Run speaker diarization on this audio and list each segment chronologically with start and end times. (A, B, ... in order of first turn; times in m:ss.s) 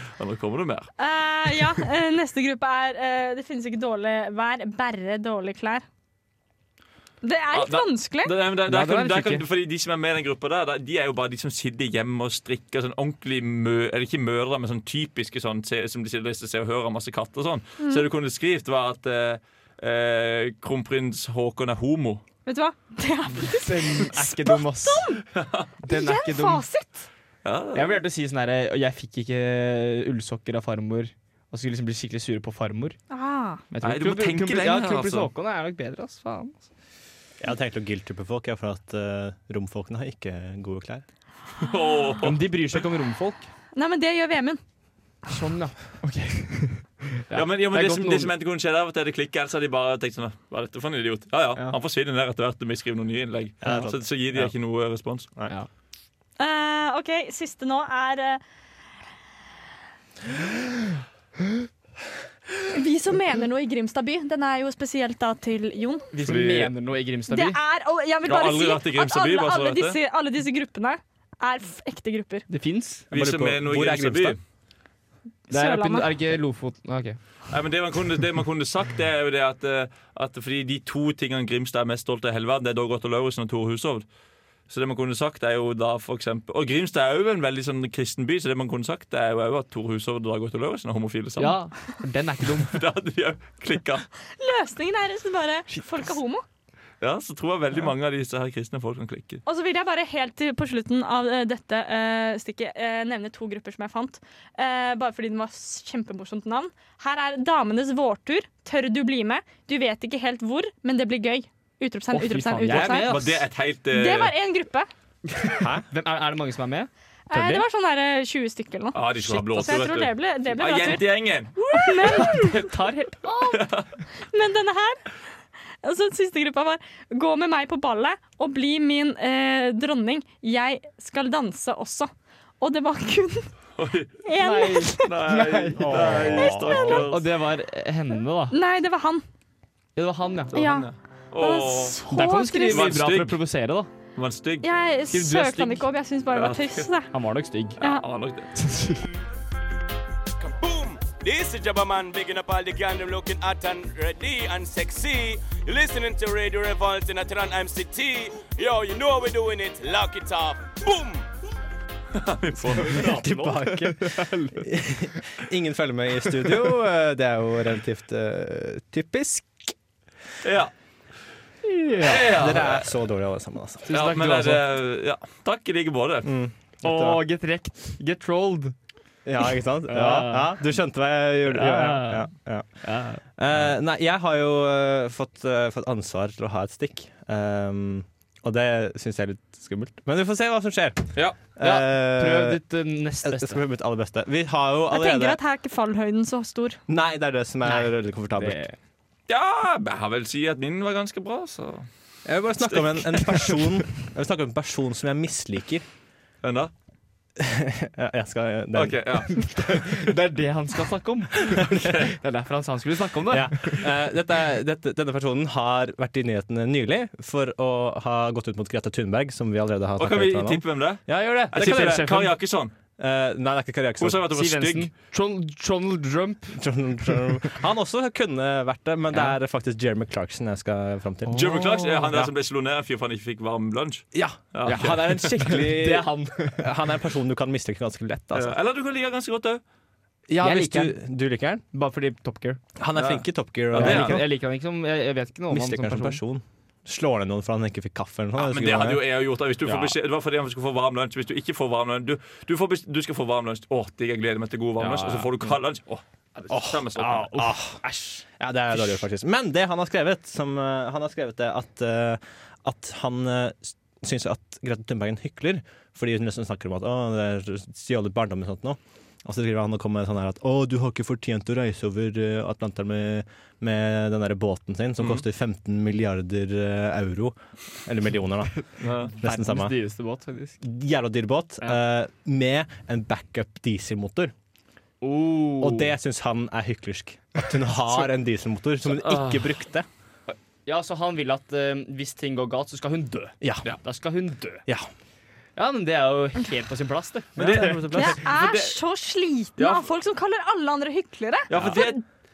0:00.1-0:00.9 A
0:01.0-0:05.8 B
0:07.2-0:08.3 B
0:07.5-0:22.2 A
0:08.7-0:09.4 C
0:22.4-0:25.2 B
0:23.4-0:25.1 C
0:25.4-0:25.7 A
0:25.8-0:26.6 C
0:25.9-0:27.1 B
0:27.4-0:28.0 A
0:27.7-0:33.0 C
0:33.1-0:33.6 B
0:33.7-0:36.6 C
0:33.8-0:35.3 A
0:37.4-0:41.0 D
0:41.6-0:42.4 A
0:42.2-0:43.5 C
0:43.7-0:44.6 B
0:45.3-0:48.3 C
0:47.3-0:55.3 A
0:53.6-0:54.5 D
0:56.4-0:58.4 B
1:02.7-1:06.1 B
1:06.1-1:07.6 C
1:06.2-1:06.7 A
1:07.3-1:12.4 B
1:08.2-1:10.0 A
1:12.5-1:13.0 C
1:13.1-1:14.4 A
1:13.1-1:14.4 D
1:15.5-1:16.1 B
1:15.5-1:17.2 C
1:17.5-1:24.0 A
1:24.7-1:31.6 A
1:31.4-1:32.8 C
1:32.7-1:34.0 A
1:34.4-1:36.4 B
1:37.0-1:39.4 A
1:39.4-1:53.4 B
1:52.1-1:53.3 C
1:52.7-1:54.3 A
1:53.9-1:54.9 B
1:55.4-1:57.6 C
1:55.5-1:55.8 D
1:57.3-2:02.7 B
1:58.9-2:02.2 A
2:02.0-2:03.2 C
2:03.2-2:05.1 B
2:03.5-2:03.8 A
2:05.8-2:13.5 B
2:13.8-2:14.2 A
2:14.2-2:15.1 B
2:14.4-2:18.5 C
2:15.0-2:17.3 A
2:15.9-2:16.6 D
2:16.4-2:17.0 B
2:18.5-2:19.2 B
2:20.0-2:20.6 C
2:20.5-2:20.9 B
2:20.5-2:22.0 A
2:21.4-2:22.9 B
2:22.1-2:23.9 C
2:22.7-2:23.4 A
2:24.1-2:24.7 A
2:24.6-2:27.1 B
2:25.1-2:25.8 C
2:26.3-2:26.9 A
2:27.1-2:27.8 C
2:27.8-2:28.5 A
2:28.6-2:29.0 C
2:30.4-2:41.2 E
2:42.1-2:43.2 A
2:42.8-2:44.6 C
2:42.8-2:49.7 D
2:50.4-2:50.7 A
2:51.6-2:52.3 C
2:52.0-2:52.9 A
2:52.2-2:54.1 D
2:53.9-2:54.6 C
2:53.9-2:56.3 A
2:56.2-2:57.2 D
2:56.8-2:58.7 C
2:59.2-3:02.7 D
2:59.9-3:00.6 C
3:01.5-3:03.2 C
3:03.2-3:12.6 D
3:11.6-3:13.6 C
3:13.2-3:15.4 D
3:14.9-3:16.8 B
3:16.9-3:18.6 D
3:18.4-3:18.8 C
3:19.3-3:21.9 A
3:22.2-3:25.8 D
3:22.6-3:23.5 A
3:26.4-3:26.7 A
3:27.4-3:29.5 D
3:28.7-3:29.4 A
3:29.3-3:31.7 C
3:31.8-3:32.1 A
3:32.2-3:33.8 C
3:33.3-3:42.3 D
3:40.0-3:42.7 A
3:41.2-3:42.2 C
3:43.0-3:44.3 D
3:44.0-3:44.9 A
3:44.3-3:46.6 C
3:46.6-3:52.3 D
3:51.3-3:52.0 C
3:51.3-3:55.3 A
3:54.1-3:58.6 D
3:54.6-3:56.6 C
3:58.3-3:59.6 A
4:00.3-4:01.6 D
4:00.4-4:01.0 C
4:01.7-4:02.6 C
4:02.8-4:04.2 D
4:02.9-4:04.2 A
4:03.7-4:06.2 C
4:05.5-4:09.0 D
4:08.4-4:17.3 A
4:09.6-4:10.0 C
4:14.8-4:15.5 C
4:16.5-4:39.8 D
4:17.0-4:18.2 C
4:35.0-4:35.2 A
4:38.8-4:39.1 A
4:39.2-4:40.6 C
4:40.6-4:44.3 D
4:45.0-4:45.9 C
4:45.6-4:49.8 D
4:48.9-4:49.5 A
4:50.3-4:54.6 C
4:53.4-4:53.7 D
4:55.6-4:58.7 C
4:57.4-4:58.3 D
4:57.4-4:57.8 A
4:57.9-5:02.0 B
4:59.6-4:59.9 A
5:01.5-5:02.0 A